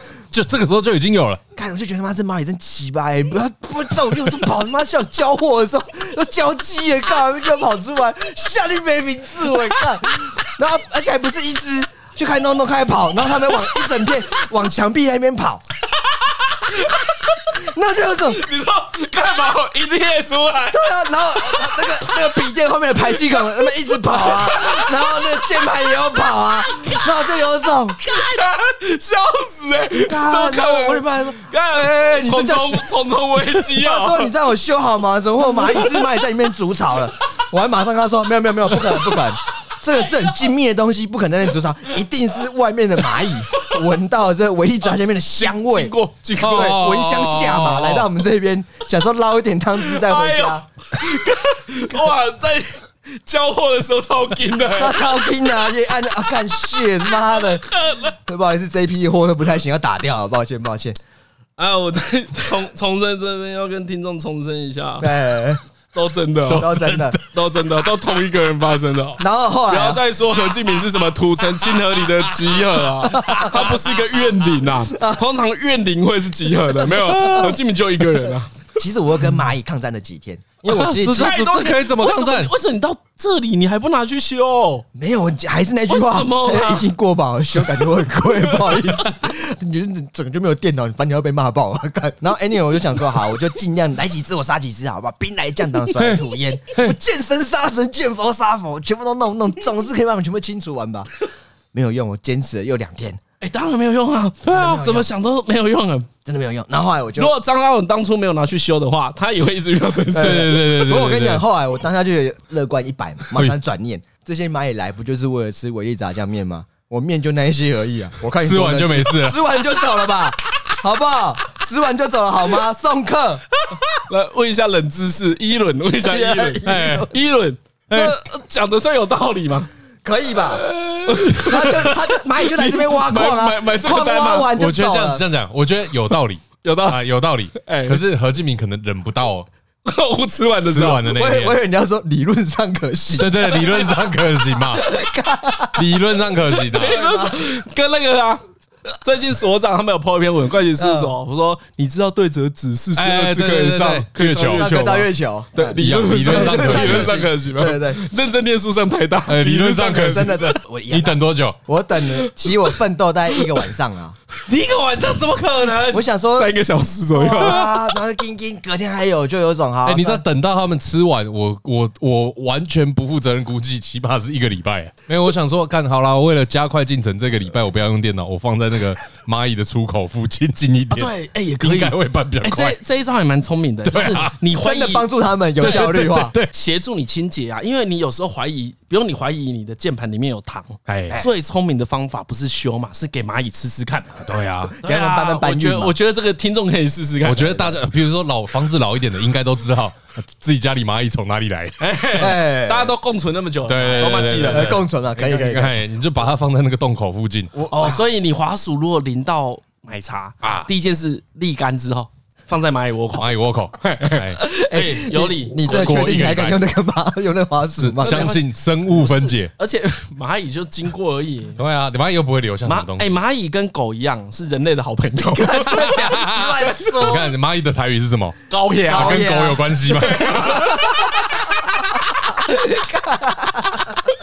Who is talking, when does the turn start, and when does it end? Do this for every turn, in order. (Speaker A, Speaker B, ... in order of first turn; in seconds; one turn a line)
Speaker A: 0.3-1.4
Speaker B: 1.6-15.6
Speaker C: 16.4-17.3
Speaker B: 17.5-18.4
Speaker C: 18.2-20.9
Speaker B: 20.7-28.0
Speaker C: 24.1-25.2
Speaker C: 28.0-34.3
Speaker B: 30.0-32.9
Speaker B: 33.6-50.6
Speaker C: 45.4-46.8
Speaker A: 46.4-48.1
Speaker C: 49.8-55.4
Speaker B: 54.8-57.6
Speaker C: 57.4-58.1
Speaker B: 58.2-61.0
Speaker C: 61.6-65.2
Speaker B: 65.0-65.6
Speaker C: 65.9-66.7
Speaker A: 66.5-67.2
Speaker B: 66.5-67.2
Speaker C: 67.3-78.5
Speaker B: 69.2-70.0
Speaker B: 73.1-73.6
Speaker A: 73.3-73.6
Speaker B: 74.9-75.2
Speaker B: 77.0-77.4
Speaker B: 78.8-81.4
Speaker A: 80.7-82.5
Speaker C: 81.1-84.8
Speaker B: 84.9-101.1
Speaker C: 85.9-86.9
Speaker C: 88.3-88.8
Speaker A: 95.9-97.0
Speaker B: 101.7-103.2
Speaker C: 103.4-106.1
Speaker B: 104.5-105.1
Speaker B: 106.2-107.3
Speaker C: 107.2-110.5
Speaker A: 110.1-111.4
Speaker B: 110.1-123.4
Speaker A: 118.4-119.4
Speaker C: 124.0-129.7
Speaker B: 126.0-127.1
Speaker A: 126.6-127.1
Speaker A: 127.9-128.2
Speaker B: 130.0-130.7
Speaker C: 130.7-134.5
Speaker B: 131.2-135.2
Speaker A: 134.6-139.5
Speaker C: 136.6-137.0
Speaker C: 137.6-138.0
Speaker C: 139.8-141.1
Speaker A: 140.6-141.6
Speaker B: 141.1-143.6
Speaker A: 143.1-144.9
Speaker C: 143.5-144.1
Speaker B: 144.7-145.9
Speaker A: 145.8-147.0
Speaker C: 146.7-148.4
Speaker B: 146.8-147.5
Speaker C: 149.0-160.4
Speaker B: 150.8-151.1
Speaker A: 152.9-154.7
Speaker B: 154.5-158.0
Speaker A: 155.8-157.2
Speaker A: 159.3-161.6
Speaker B: 159.8-164.2
Speaker C: 162.1-162.7
Speaker C: 164.4-167.6
Speaker B: 165.9-166.5
Speaker B: 167.1-170.2
Speaker A: 167.4-167.7
Speaker A: 169.8-182.8
Speaker C: 180.9-185.1
Speaker A: 183.9-184.3
Speaker B: 184.6-186.3
Speaker A: 185.6-186.5
Speaker C: 185.6-194.2
Speaker A: 190.9-191.2
Speaker A: 194.2-194.8
Speaker B: 194.8-195.9
Speaker C: 194.8-197.8
Speaker A: 197.2-201.8
Speaker C: 201.8-204.7
Speaker B: 202.1-202.9
Speaker A: 203.7-207.5
Speaker B: 204.4-205.8
Speaker B: 207.5-208.0
Speaker C: 207.7-215.9
Speaker A: 210.4-210.7
Speaker A: 213.2-214.4
Speaker B: 214.6-218.3
Speaker A: 215.6-216.6
Speaker A: 217.8-219.5
Speaker C: 218.0-221.6
Speaker A: 221.6-223.1
Speaker C: 222.7-226.0
Speaker B: 225.2-227.3
Speaker A: 225.8-230.8
Speaker C: 228.5-229.4
Speaker B: 228.9-229.7
Speaker C: 229.9-230.8
Speaker B: 230.2-231.3
Speaker B: 232.4-234.0